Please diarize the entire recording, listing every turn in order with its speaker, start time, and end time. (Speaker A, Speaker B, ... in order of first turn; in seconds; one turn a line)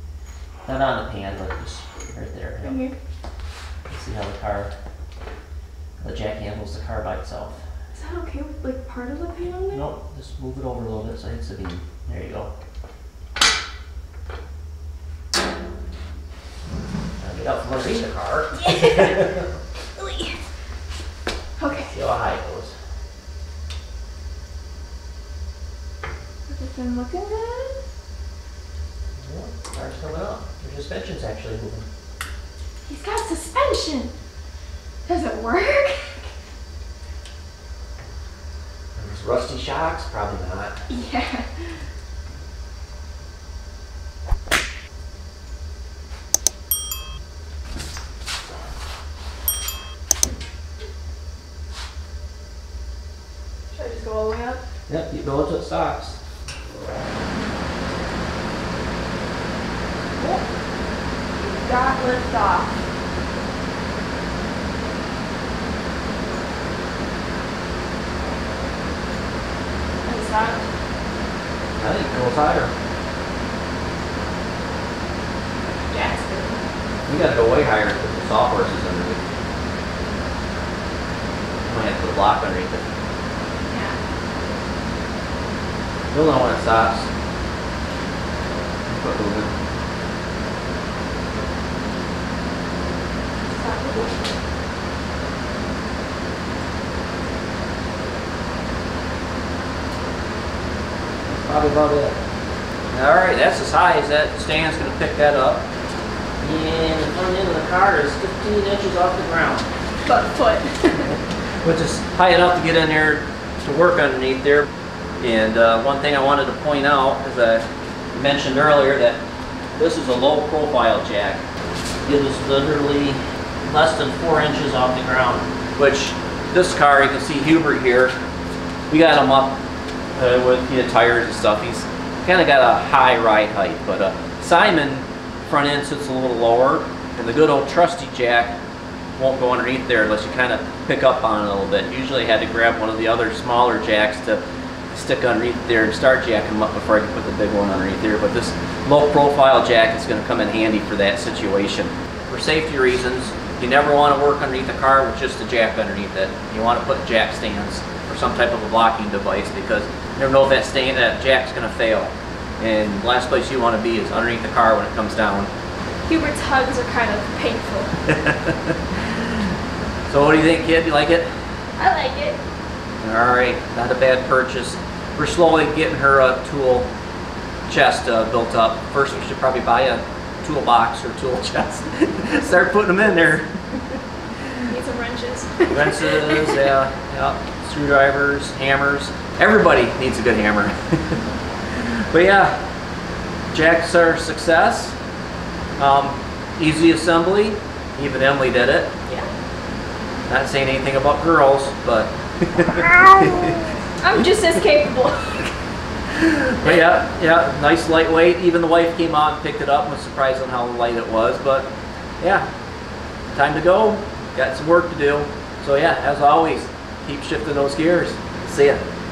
Speaker A: 0.7-2.9
Speaker B: 2.6-2.9
Speaker A: 3.9-4.7
Speaker A: 6.0-7.6
Speaker B: 7.9-9.8
Speaker A: 9.7-12.5
Speaker A: 17.2-19.4
Speaker B: 18.6-19.2
Speaker B: 20.0-20.4
Speaker B: 21.6-21.9
Speaker A: 21.7-22.7
Speaker B: 26.5-27.8
Speaker A: 29.1-31.9
Speaker B: 32.9-34.1
Speaker B: 35.0-36.2
Speaker A: 39.0-40.8
Speaker B: 40.9-41.5
Speaker B: 53.7-54.6
Speaker A: 54.9-56.2
Speaker B: 61.4-62.8
Speaker B: 70.0-70.7
Speaker A: 71.8-72.7
Speaker B: 75.8-76.6
Speaker A: 77.1-79.2
Speaker A: 81.6-82.9
Speaker B: 83.7-84.0
Speaker A: 86.1-87.1
Speaker A: 88.9-89.5
Speaker B: 93.4-94.2
Speaker A: 101.2-102.2
Speaker A: 102.9-105.7
Speaker A: 106.4-109.7
Speaker B: 110.0-111.1
Speaker A: 111.0-114.7
Speaker A: 115.2-119.2
Speaker A: 119.8-121.4
Speaker A: 122.0-128.1
Speaker A: 128.9-129.6
Speaker A: 130.1-138.6
Speaker A: 139.2-165.5
Speaker B: 166.1-167.9
Speaker A: 168.1-168.8
Speaker A: 170.1-171.3
Speaker B: 171.8-172.4
Speaker A: 173.0-176.9
Speaker A: 177.7-184.0
Speaker B: 184.7-186.6
Speaker A: 185.7-191.2
Speaker A: 191.7-192.6
Speaker A: 193.5-195.0
Speaker A: 195.8-198.9
Speaker A: 200.3-203.6
Speaker B: 204.0-205.5
Speaker A: 206.1-212.5
Speaker A: 213.3-218.8